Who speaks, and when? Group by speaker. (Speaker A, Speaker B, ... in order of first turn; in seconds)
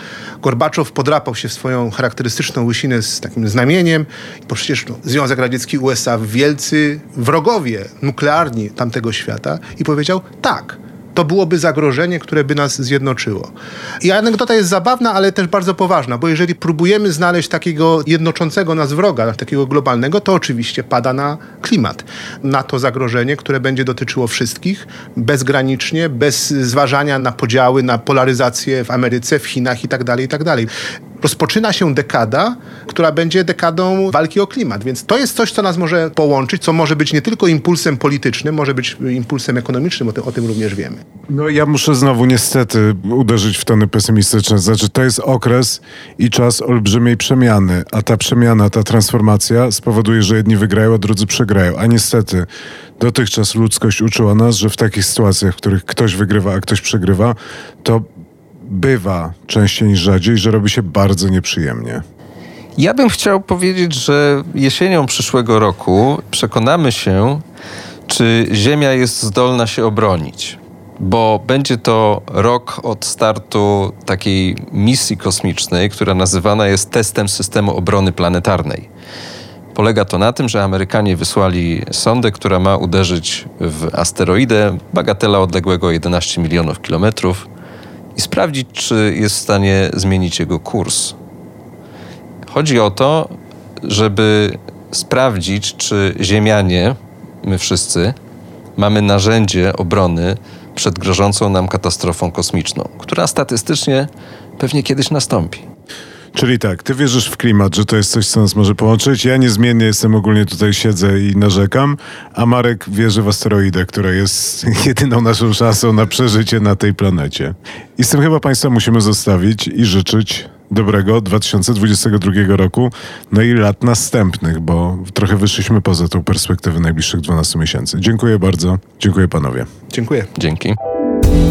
Speaker A: 0.4-30.7, 31.2-41.0, 129.9-130.3
Speaker B: 41.3-52.5, 53.0-58.1, 58.6-62.0, 106.3-129.7
Speaker C: 62.8-67.4, 68.1-78.9, 79.7-87.5, 88.2-91.2, 92.5-98.2, 98.8-105.6, 130.3-130.8